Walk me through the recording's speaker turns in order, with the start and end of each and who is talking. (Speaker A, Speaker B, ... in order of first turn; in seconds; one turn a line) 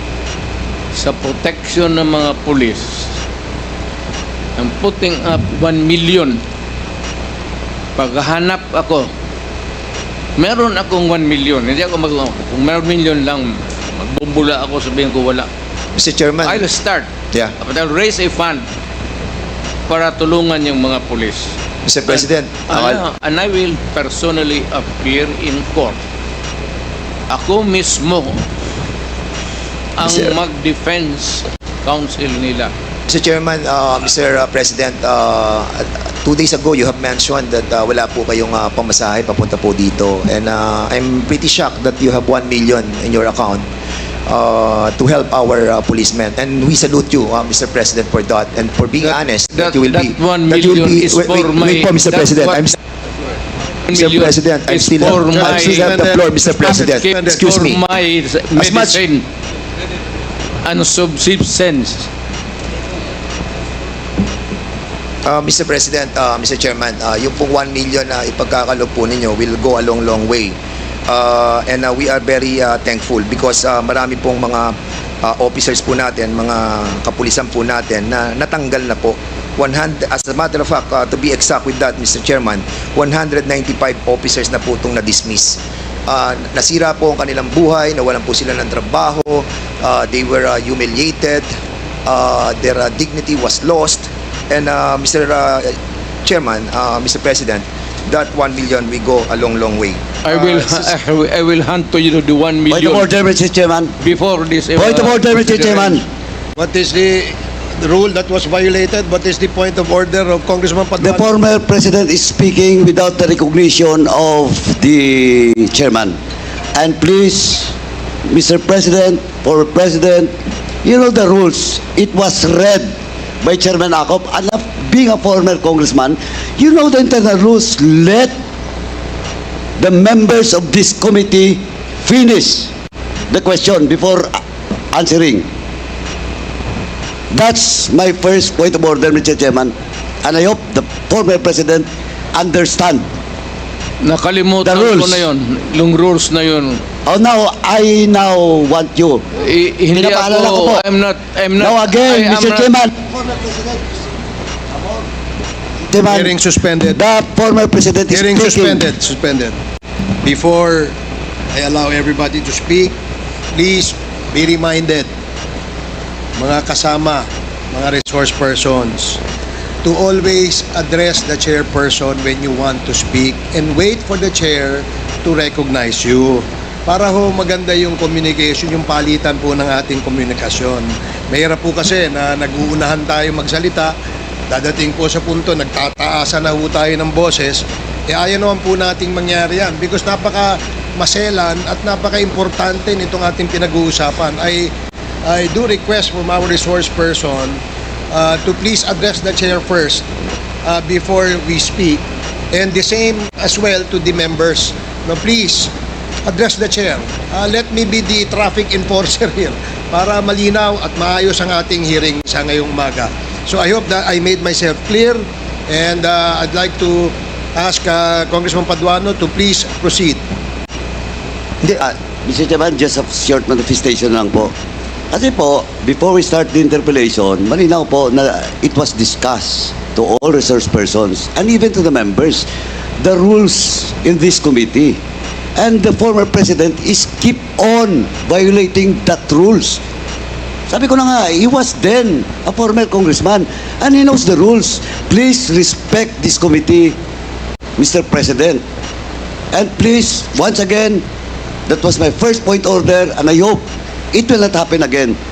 Speaker A: 0.9-3.2
Speaker A: 4.6-6.4
Speaker A: 8.0-9.1
Speaker A: 10.4-15.5
Speaker B: 15.9-16.6
Speaker A: 16.4-18.7
Speaker A: 19.9-21.6
Speaker B: 21.9-23.0
Speaker A: 22.1-26.0
Speaker A: 27.3-28.4
Speaker A: 30.0-32.7
Speaker B: 30.0-30.3
Speaker B: 33.1-43.6
Speaker B: 44.3-52.8
Speaker A: 49.0-52.8
Speaker A: 53.9-59.3
Speaker B: 53.9-57.8
Speaker C: 55.1-57.5
Speaker B: 58.5-59.0
Speaker A: 60.6-62.1
Speaker B: 65.2-70.6
Speaker B: 71.1-91.5
Speaker B: 92.1-100.9
Speaker A: 100.2-103.1
Speaker D: 102.7-104.0
Speaker A: 104.0-106.0
Speaker D: 104.8-106.0
Speaker C: 106.6-111.3
Speaker D: 111.0-116.2
Speaker D: 116.8-117.7
Speaker D: 118.3-120.3
Speaker D: 120.8-128.3
Speaker D: 129.8-132.7
Speaker D: 133.3-134.4
Speaker D: 134.9-135.5
Speaker D: 137.3-143.1
Speaker A: 144.0-146.8
Speaker D: 144.6-145.3
Speaker D: 147.1-149.2
Speaker A: 149.4-152.7
Speaker D: 149.9-150.8
Speaker D: 151.6-154.0
Speaker D: 154.8-155.0
Speaker D: 155.9-158.9
Speaker C: 156.0-157.0
Speaker C: 158.1-159.6
Speaker C: 160.2-160.9
Speaker C: 161.5-162.9
Speaker C: 163.5-165.1
Speaker C: 166.4-169.2
Speaker C: 169.8-183.9
Speaker C: 184.5-194.7
Speaker C: 195.3-197.6
Speaker C: 198.1-200.1
Speaker C: 200.7-205.7
Speaker C: 206.3-220.2
Speaker B: 221.6-221.9
Speaker D: 222.2-224.5
Speaker D: 225.1-232.5
Speaker D: 233.0-235.0
Speaker D: 235.6-239.8
Speaker D: 240.7-247.0
Speaker D: 247.8-248.6
Speaker D: 249.5-251.0
Speaker D: 251.7-255.2